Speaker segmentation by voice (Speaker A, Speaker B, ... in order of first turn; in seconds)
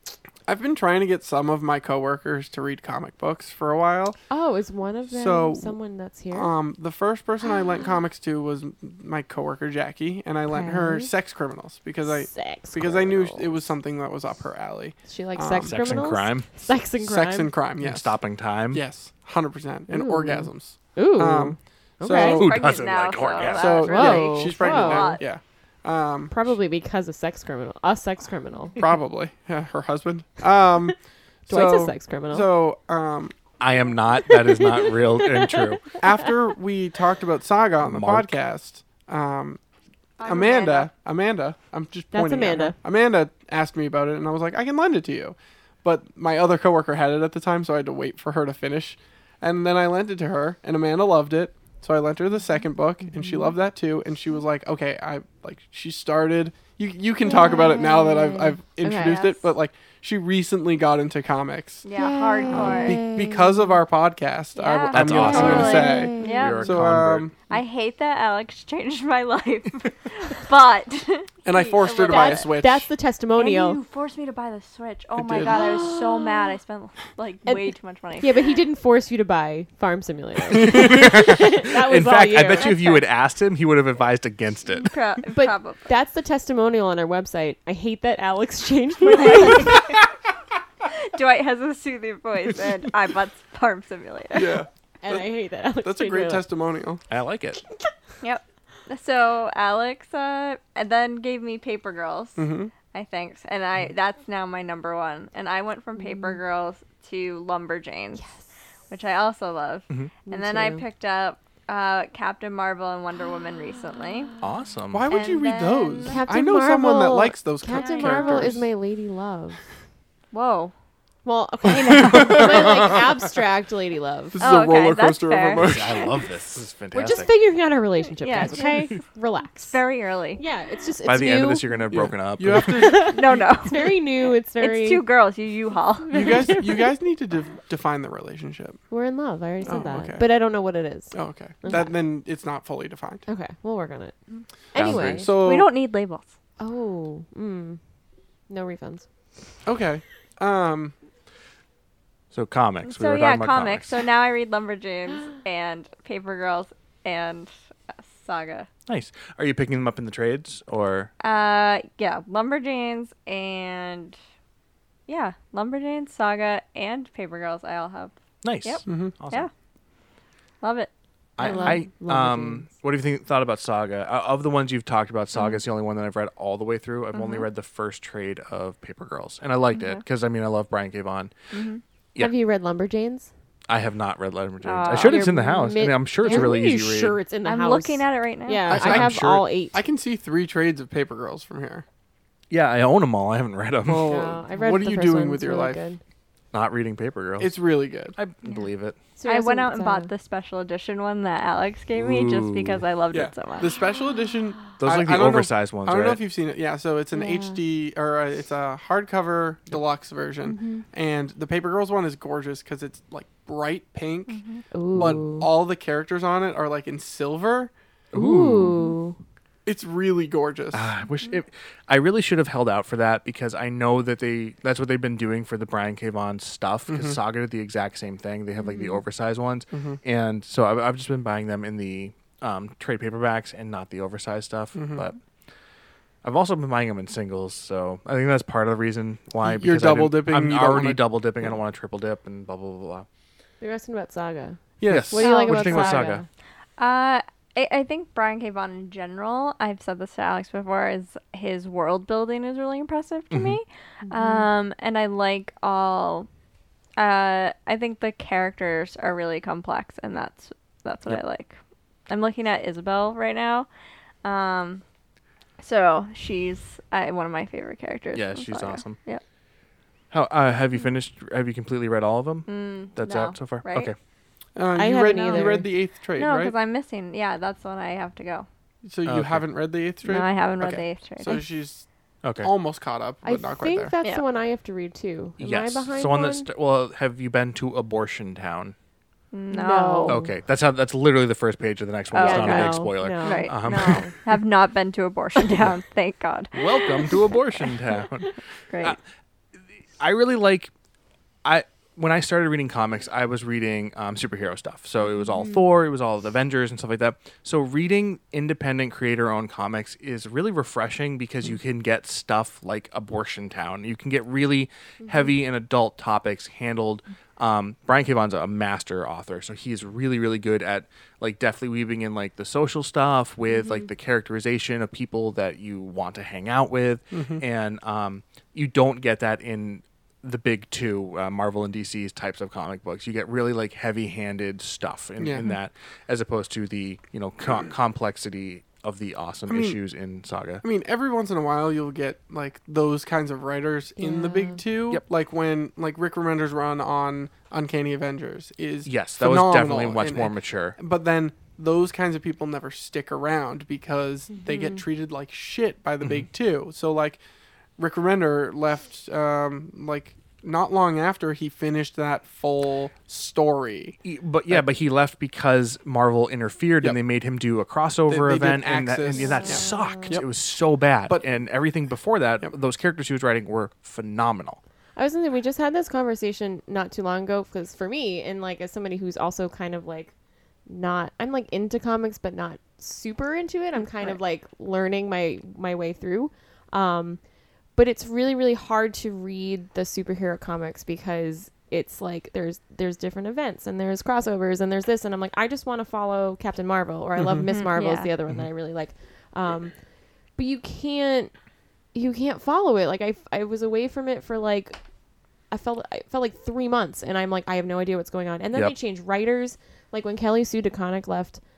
Speaker A: 0.5-4.2, 5.1-5.7, 6.3-15.7, 17.0-18.1, 18.7-22.5, 23.4-26.5, 28.8-30.9, 31.5-33.3, 36.0-39.6, 40.2-61.8, 62.5-67.3, 71.4-72.9, 75.2-75.9, 80.5-80.9, 94.3-97.0, 102.4-102.7, 114.9-118.7, 124.3-126.2, 131.9-133.4, 136.1-138.8, 139.6-140.3, 141.1-143.2, 144.9-145.7, 149.6-150.9, 168.8-169.1, 188.7-189.2, 189.7-191.8, 193.9-195.8, 197.4-198.2, 203.1-214.4, 214.9-217.7, 219.7-220.9, 226.9-227.2, 229.7-230.0, 234.7-235.1, 239.4-241.1, 244.8-246.0, 274.6-276.5, 278.8-281.9, 282.4-283.9, 327.1-327.4, 335.2-335.5, 339.5-339.8, 340.6-357.2, 357.8-364.0, 368.1-370.3, 397.2-397.4
Speaker B: 4.3-6.5, 10.5-11.1, 12.1-13.5, 15.1-17.5, 19.9-22.5, 23.9-25.2, 26.3-28.8, 31.5-32.5, 34.3-35.9, 42.1-42.8, 53.1-53.5, 57.2-59.4, 61.9-63.8, 65.1-66.7, 72.0-73.8, 75.4-76.5, 77.5-83.0, 85.3-90.0, 95.0-96.5, 106.0-106.4, 110.3-110.8, 116.1-119.6, 121.2-124.4, 126.9-129.8, 130.4-131.8, 132.8-135.0, 136.0-136.9, 138.9-142.0, 143.3-144.2, 144.7-145.3, 146.6-147.8, 148.5-149.1, 171.4-172.7, 182.2-183.3, 185.0-189.8, 193.9-196.0, 199.2-200.1, 207.1-207.6, 210.4-210.8, 214.7-215.5, 218.1-219.2, 228.7-229.0, 243.6-246.2, 254.1-254.4, 274.7-275.7, 283.2-286.4, 289.5-290.3, 292.2-294.1, 344.0-344.6, 354.4-354.8, 369.2-370.2, 374.9-380.1, 380.7-387.2, 387.7-399.7, 400.4-401.3, 401.9-404.8, 405.5-411.4
Speaker C: 15.6-16.6, 17.8-18.8, 22.1-23.9, 33.6-35.8, 37.8-38.3, 64.9-67.3, 80.7-84.9, 97.1-97.6, 114.4-115.1, 125.6-127.3, 131.0-133.1, 144.7-145.3, 152.3-153.9, 158.9-161.1, 168.4-169.5, 171.4-181.3, 183.7-187.2, 188.7-189.5, 192.5-194.1, 196.5-197.5, 198.1-199.0, 201.9-202.8, 204.8-206.2, 218.1-218.8, 220.7-235.2, 236.2-243.1, 244.9-246.2, 253.3-253.6, 268.1-269.0, 270.1-273.9, 279.1-279.4, 282.2-282.5, 285.4-288.7, 290.1-294.1, 296.5-299.0, 300.0-300.7, 301.4-340.6, 348.8-350.8, 356.0-356.3, 364.0-374.6
Speaker D: 22.2-25.2, 40.2-40.9, 61.8-63.0, 64.5-66.7, 67.5-72.5, 73.4-78.3, 84.8-85.9, 89.1-90.0, 90.9-94.6, 98.2-108.2, 108.9-114.3, 115.1-116.2, 117.8-118.5, 120.3-120.7, 121.7-122.9, 124.4-126.0, 128.2-128.9, 129.6-130.4, 133.1-136.4, 145.3-146.3, 152.8-158.7, 161.2-164.2, 165.1-169.5, 170.6-170.9, 177.1-177.4, 179.7-180.0, 181.5-181.8, 184.6-185.3, 187.4-188.8, 199.2-203.8, 214.3-214.6, 245.2-245.7, 246.8-256.3, 257.0-261.6, 262.1-263.7, 264.2-264.8, 265.6-269.2, 272.5-273.9, 275.2-275.5, 276.1-278.5, 280.0-281.4, 289.3-290.2, 292.1-297.1, 298.7-299.0, 397.5-398.1